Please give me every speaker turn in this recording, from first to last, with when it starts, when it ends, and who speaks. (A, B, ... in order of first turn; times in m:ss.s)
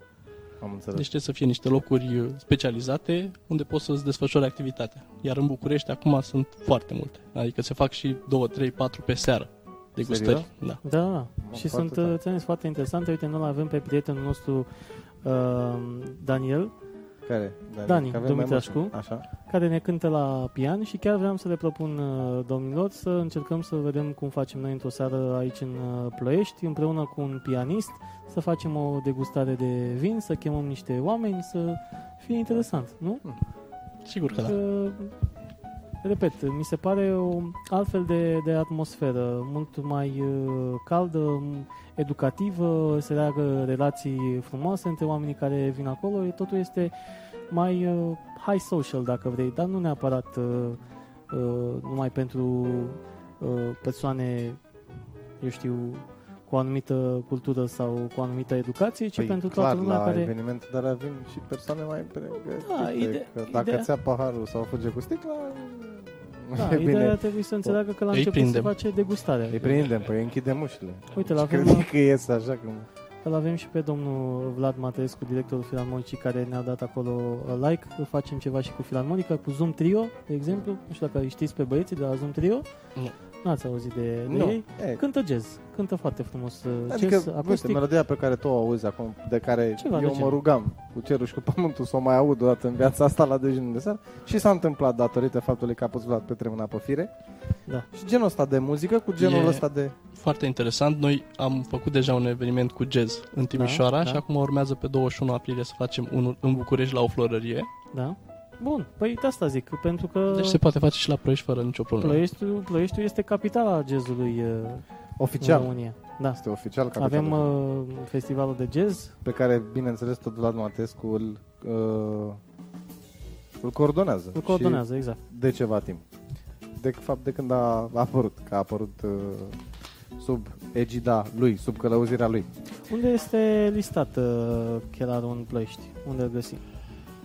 0:00.6-0:01.1 A
0:00.9-0:10.8 B
0:10.0-0:10.4 A
0:10.8-0:14.7 C
0:11.4-0:12.2 A
0:15.2-0:16.7 C
0:17.2-0:19.2 A
0:17.9-0:18.9 C
0:19.5-0:33.2 C
0:34.0-0:34.6 B
0:34.4-0:35.1 C
0:36.0-0:46.9 C
0:47.5-0:50.8 C
0:51.3-0:54.6 C
0:55.4-1:00.3 C
0:59.2-1:07.8 A
1:02.6-1:03.9 C
1:06.6-1:09.8 C
1:08.1-1:08.7 B
1:09.5-1:12.9 A
1:11.1-1:11.9 C
1:13.2-1:22.6 C
1:23.4-1:27.8 C
1:24.3-1:25.0 A
1:26.9-1:37.1 A
1:29.8-1:30.4 C
1:37.9-1:39.9 A
1:39.2-1:39.6 B
1:40.1-1:47.7 B
1:43.5-1:44.2 C
1:47.9-1:50.6 C
1:50.3-1:52.2 B
1:52.0-1:54.8 C
1:55.2-1:55.7 A
1:55.4-1:56.4 C
1:56.4-1:57.5 A
1:57.0-1:59.2 C
1:59.2-2:02.4 A
2:03.6-2:06.0 A
2:04.4-2:05.2 C
2:06.8-2:09.6 A
2:10.2-2:12.5 A
2:12.9-2:16.6 C